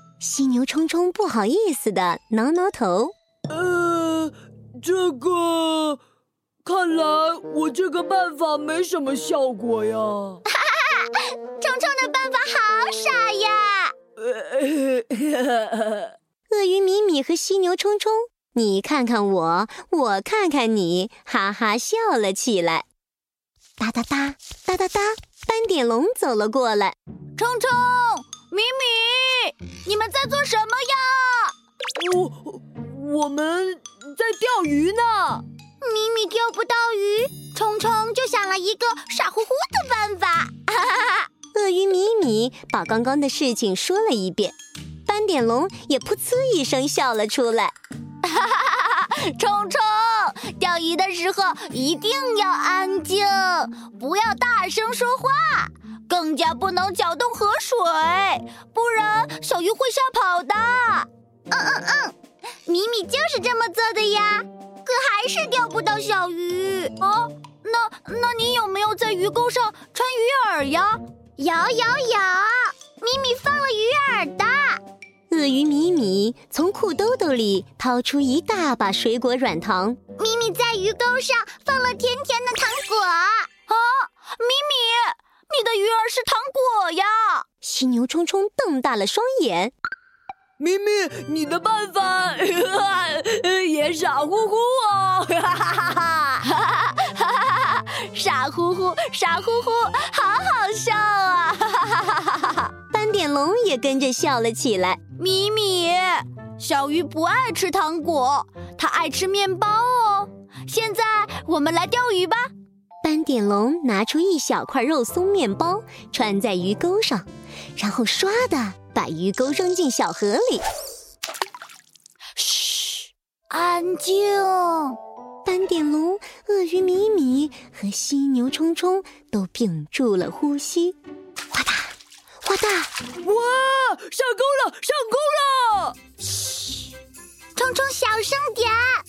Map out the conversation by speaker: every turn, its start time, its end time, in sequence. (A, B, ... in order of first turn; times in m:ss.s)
0:00.2-0:03.1 A
0:03.5-0:06.0 B
0:06.6-0:10.4 B
0:10.5-0:13.9 C
0:14.2-0:16.1 B
0:16.5-0:22.8 A
0:23.8-0:27.0 A
0:27.4-0:31.5 C
0:32.0-0:35.4 B
0:35.8-0:41.3 C
0:41.5-0:44.5 A
0:45.1-0:47.7 A
0:48.2-1:14.8 C
1:15.3-1:20.0 A
1:20.2-1:27.4 C
1:27.6-1:29.7 A
1:30.6-1:36.3 B
1:36.3-1:42.7 C
1:42.9-1:45.0 A
1:45.2-1:52.5 C
1:53.0-2:00.6 A
2:02.4-2:05.0 C
2:05.4-2:11.0 A
2:11.5-2:12.9 A
2:13.2-2:16.0 B
2:17.5-2:19.0 C